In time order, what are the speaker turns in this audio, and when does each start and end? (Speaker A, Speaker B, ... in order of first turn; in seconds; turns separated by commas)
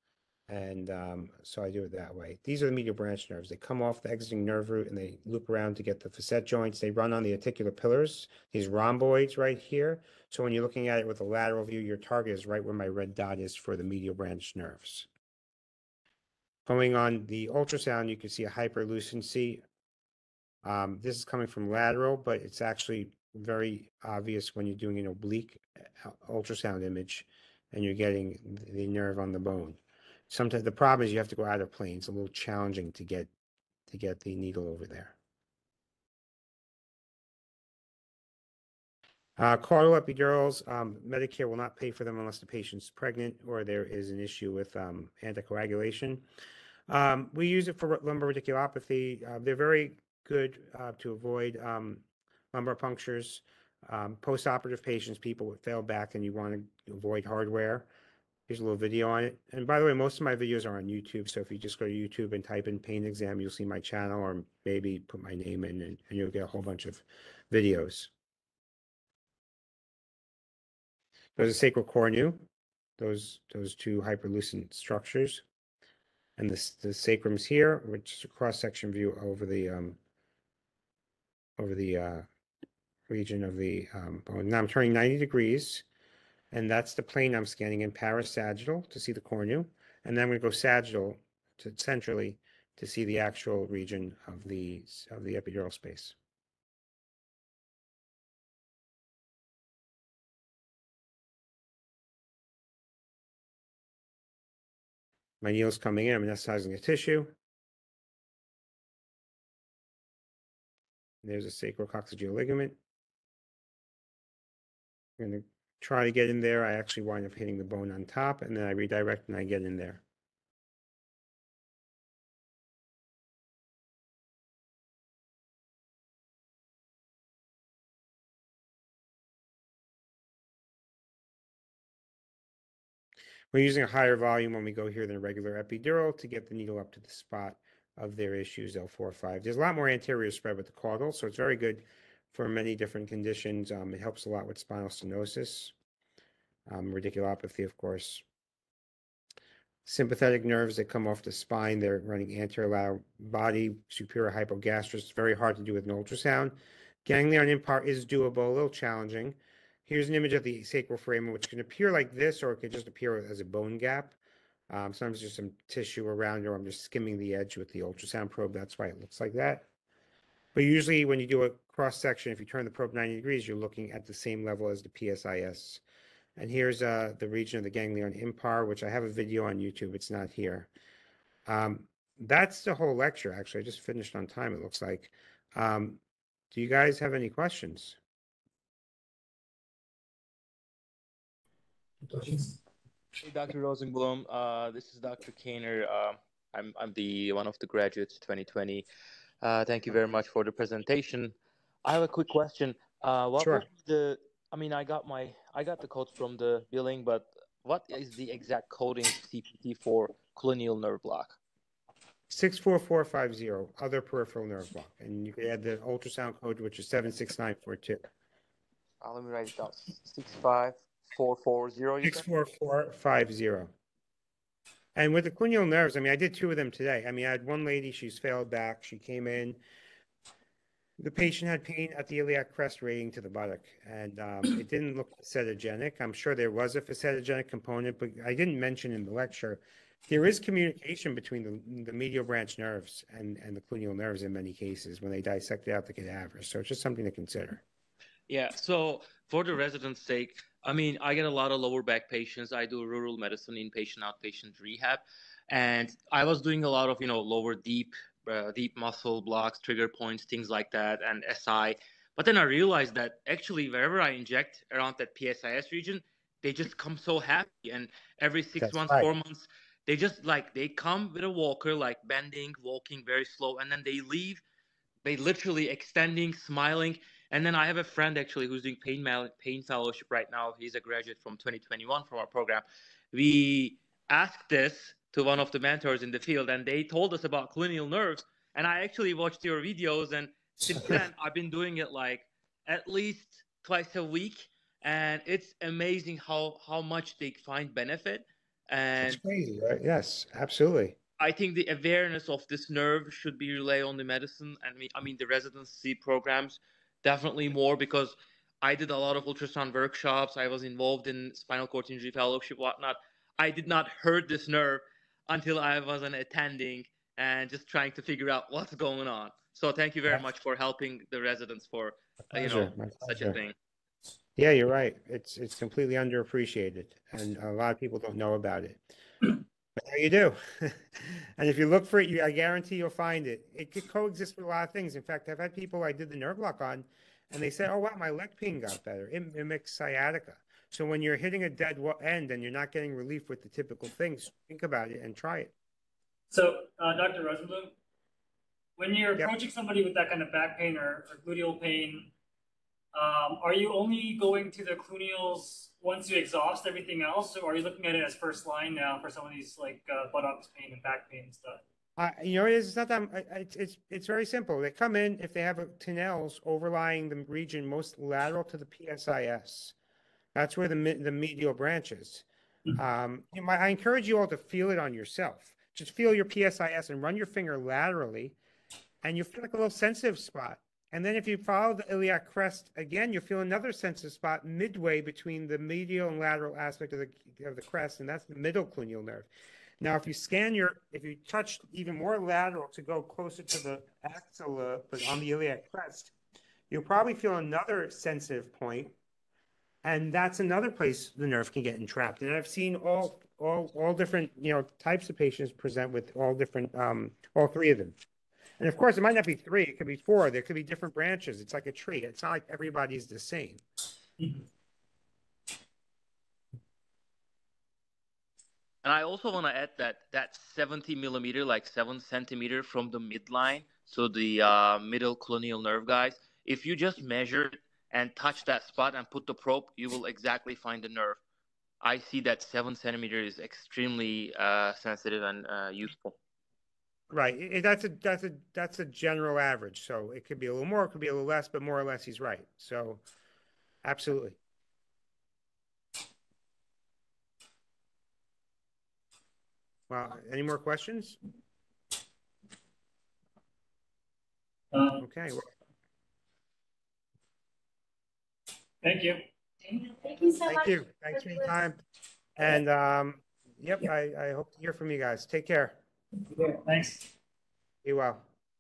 Speaker A: 0.5-15.1, Speaker A: 16.6-19.6, Speaker A: 20.6-33.3, Speaker A: 33.9-35.1, Speaker A: 39.4-46.2, Speaker A: 46.9-57.9, Speaker A: 58.5-68.1, Speaker A: 71.3-72.4, Speaker A: 73.0-75.4, Speaker A: 76.4-80.0, Speaker A: 81.6-82.2, Speaker A: 83.1-85.8, Speaker A: 86.5-96.1, Speaker A: 105.4-107.3, Speaker A: 111.2-112.8, Speaker A: 115.2-120.0, Speaker A: 133.5-145.7, Speaker A: 146.7-148.2, Speaker A: 149.8-164.1, Speaker A: 164.7-169.7, Speaker A: 170.5-175.8, Speaker A: 176.4-180.7, Speaker A: 181.4-186.0, Speaker A: 186.5-188.0, Speaker B: 193.2-198.8, Speaker B: 199.4-201.3, Speaker B: 201.8-211.4, Speaker A: 203.4-203.7, Speaker A: 212.3-218.0, Speaker B: 219.0-222.2, Speaker A: 222.0-223.7, Speaker A: 224.9-229.6, Speaker A: 231.0-247.6, Speaker B: 248.3-274.4, Speaker A: 268.6-269.1, Speaker B: 275.0-299.2, Speaker A: 299.0-300.9, Speaker B: 301.2-323.5, Speaker A: 322.3-323.4, Speaker A: 324.4-328.8, Speaker A: 329.8-345.5, Speaker C: 346.3-347.8, Speaker C: 348.8-352.1, Speaker C: 352.9-361.6, Speaker A: 362.0-369.7, Speaker A: 370.3-378.4, Speaker A: 379.0-389.3, Speaker A: 389.8-396.1, Speaker A: 396.7-398.9, Speaker A: 399.8-407.9, Speaker A: 408.6-413.6, Speaker B: 418.8-431.2, Speaker B: 431.8-436.1, Speaker A: 437.1-443.0, Speaker A: 443.8-444.4, Speaker A: 449.9-451.2, Speaker C: 454.7-455.0, Speaker A: 455.0-455.5, Speaker C: 458.8-459.2, Speaker C: 459.8-460.4, Speaker A: 460.4-461.8, Speaker A: 462.4-465.8, Speaker C: 466.3-467.1, Speaker A: 467.8-468.3